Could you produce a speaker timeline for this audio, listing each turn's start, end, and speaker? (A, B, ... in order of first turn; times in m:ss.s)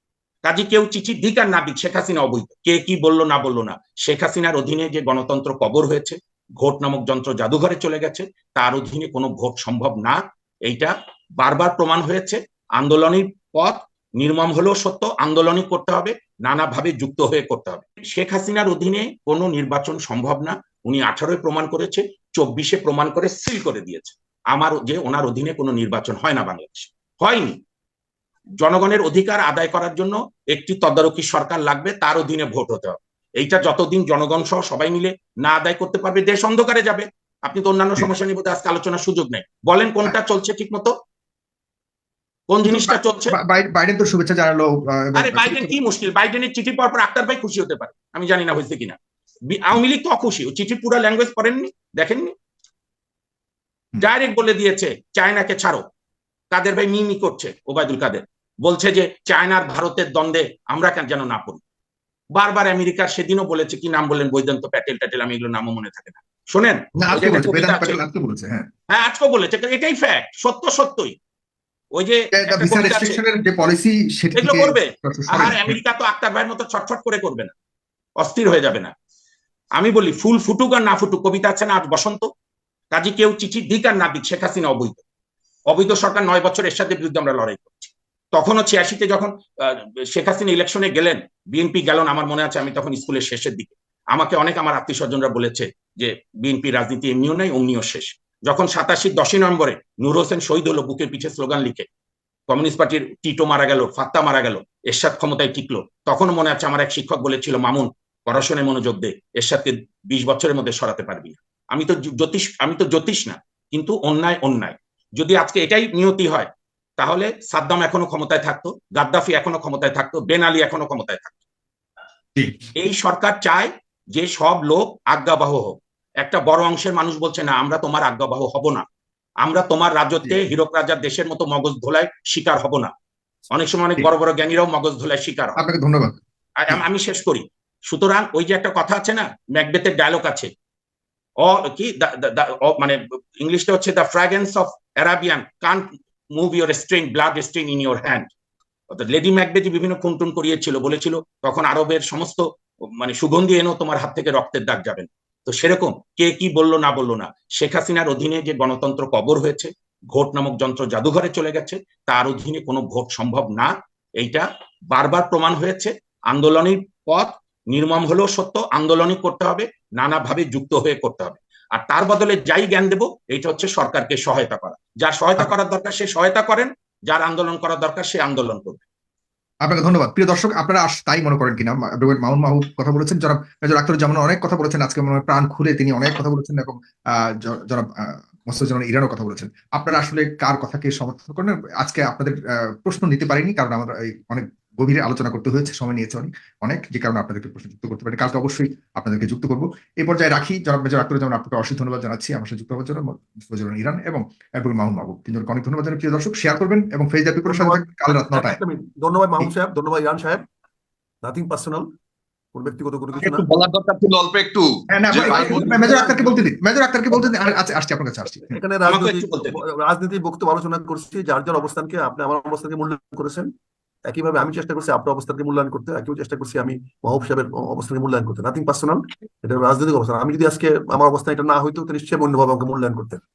0:00.4-0:27.6 A
0:28.6-0:40.9 A
0:42.5-0:43.4 A
0:42.6-0:45.7 B
0:45.1-0:52.3 A
0:54.0-0:55.9 A
0:56.5-1:01.6 A
1:02.3-1:08.0 A
1:07.0-1:08.7 B
1:08.9-1:11.2 A
1:11.9-1:13.2 A
1:12.3-1:15.8 B
1:14.3-1:17.5 A
1:18.2-1:18.9 A
1:19.7-1:22.3 A
1:22.9-1:25.0 A
1:25.7-1:41.9 A
1:42.5-2:01.4 A
2:02.8-2:08.8 A
2:09.4-2:12.9 A
2:13.5-2:15.6 A
2:15.6-2:16.2 B
2:16.6-2:20.5 A
2:21.4-2:28.3 A
2:28.9-2:32.4 A
2:33.0-2:58.8 A
2:59.6-3:28.6 B
3:27.5-3:30.4 C
3:31.2-3:31.9 C
3:32.5-3:33.5 C
3:33.2-3:35.8 D
3:34.9-3:38.6 B
3:35.2-3:36.3 C
3:38.5-3:43.5 C
3:38.8-3:39.6 A
3:44.0-3:53.2 C